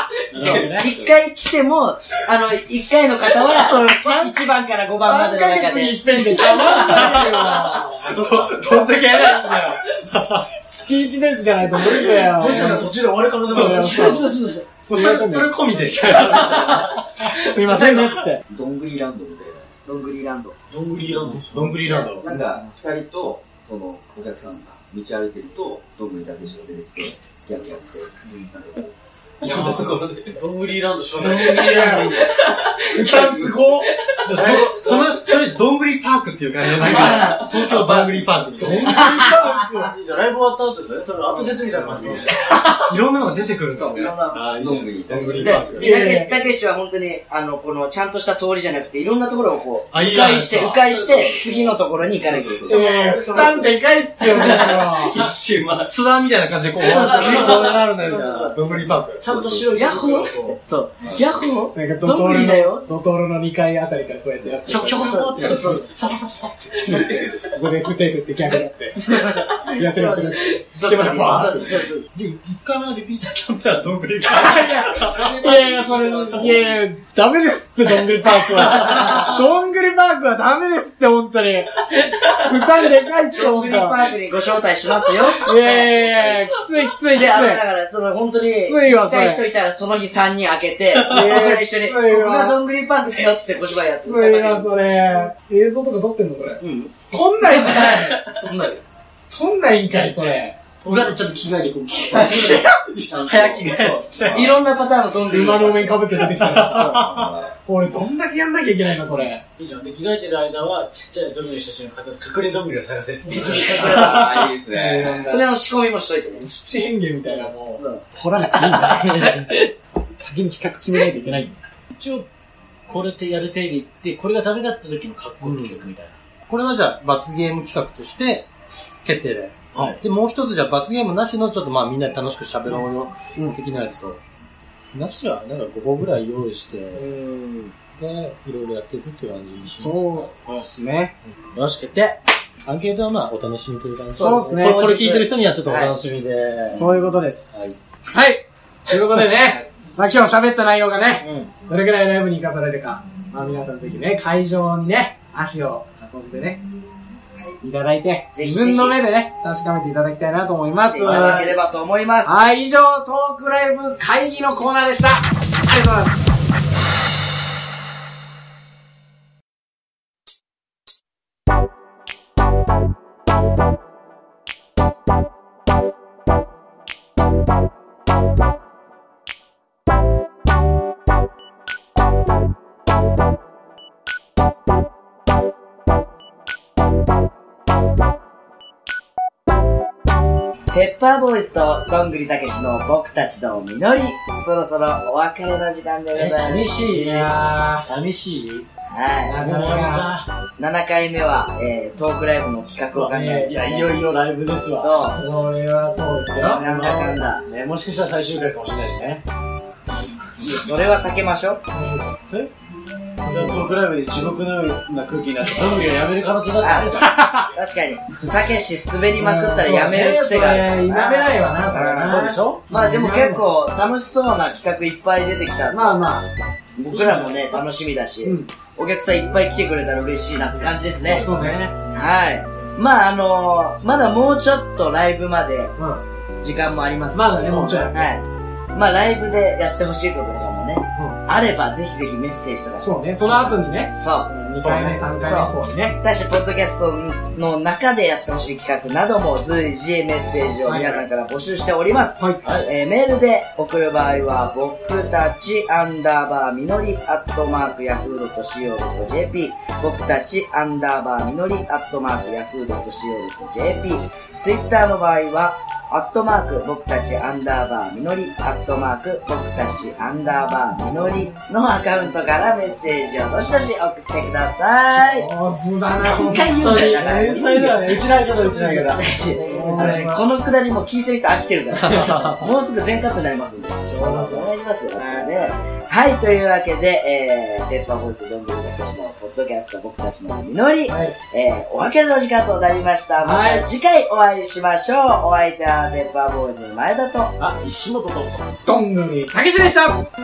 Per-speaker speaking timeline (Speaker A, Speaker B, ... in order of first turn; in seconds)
Speaker A: 0.3-1.1, 6.5-7.8, 8.6-9.7, 16.1-19.7, 22.2-30.4, 31.2-35.3, 36.8-38.1, 43.8-45.9, 50.0-55.9, 56.8-57.9, 58.9-59.7, 61.0-61.4, 65.0-65.7, 66.8-67.5, 102.3-104.6, 106.8-107.5, 113.6-115.3, 118.6-119.2
Speaker B: 0.3-0.9, 8.0-8.7, 11.9-14.2, 20.7-22.2, 30.4-32.2, 34.4-35.0, 38.5-42.4, 52.9-53.5, 59.2-60.6, 100.8-101.2, 109.6-114.2, 121.9-122.3, 122.9-126.2, 129.7-130.0, 141.5-142.2, 161.0-161.5, 196.1-198.7, 199.4-200.3, 202.9-205.0, 206.3-209.2, 213.2-217.2, 222.0-222.6, 226.9-227.6, 230.9-231.7, 237.4-237.9, 244.3-245.3, 252.4-252.7, 276.5-280.1, 297.4-298.6
Speaker C: 0.4-6.0, 13.8-14.6, 16.1-16.4, 19.9-20.6, 36.8-37.9, 43.8-44.1, 45.4-52.7, 56.8-58.5, 59.7-62.9, 65.3-65.9, 69.0-72.0, 75.0-76.7, 79.0-79.3, 83.3-86.3, 87.1-95.1, 96.6-96.9, 97.8-98.8, 104.3-106.0, 115.3-116.5, 117.2-118.0, 144.1-145.3, 151.2-151.5, 158.3-159.0, 160.9-162.4, 190.7-196.8, 198.9-199.4, 200.6-203.9, 204.7-205.2, 206.5-207.4, 210.4-211.6, 216.6-226.0, 226.8-231.3, 231.9-235.7, 236.4-275.3, 276.0-278.0, 278.9-297.3
Speaker D: 3.5-4.4, 5.0-8.1, 10.6-12.9, 13.4-14.3, 14.8-15.5, 17.3-18.4, 31.3-32.3, 32.9-33.9, 45.8-46.5, 52.6-55.1, 61.7-65.6, 66.9-69.0, 69.6-70.5, 74.3-84.1, 85.4-87.6, 88.4-89.4, 91.0-92.6, 93.9-98.3, 99.3-100.6, 102.2-102.6, 105.3-109.4, 113.8-115.5, 116.4-119.6, 120.2-121.6, 137.0-137.7, 139.8-141.1, 144.1-145.0, 145.6-145.9, 146.7-156.6, 157.6-161.6, 162.2-166.3, 196.9-197.9, 199.2-200.1, 203.1-203.8, 204.9-206.6, 211.7-212.2, 213.2-213.8, 217.0-217.5, 219.2-223.4, 225.7-226.3, 228.2-228.5, 231.1-231.6, 235.8-236.0, 237.1-238.1, 242.8-243.9, 244.6-246.0, 250.7-251.0, 252.2-252.4, 274.9-277.0, 278.4-280.2, 283.9-285.6, 290.9-291.1, 293.2-293.6, 298.6-300.0
Speaker E: 6.8-10.5, 13.5-14.1, 14.9-17.3, 21.3-22.6, 29.4-29.9, 31.5-31.9, 34.2-39.3, 41.3-46.0, 49.9-51.0, 55.1-59.4, 64.7-67.3, 70.8-75.6, 76.3-76.6, 78.1-79.3, 100.8-104.6, 106.1-107.3, 125.4-125.8, 126.5-128.5, 129.0-134.2, 134.9-137.1, 138.0-140.3, 142.6-147.0, 147.5-147.8, 281.8-282.4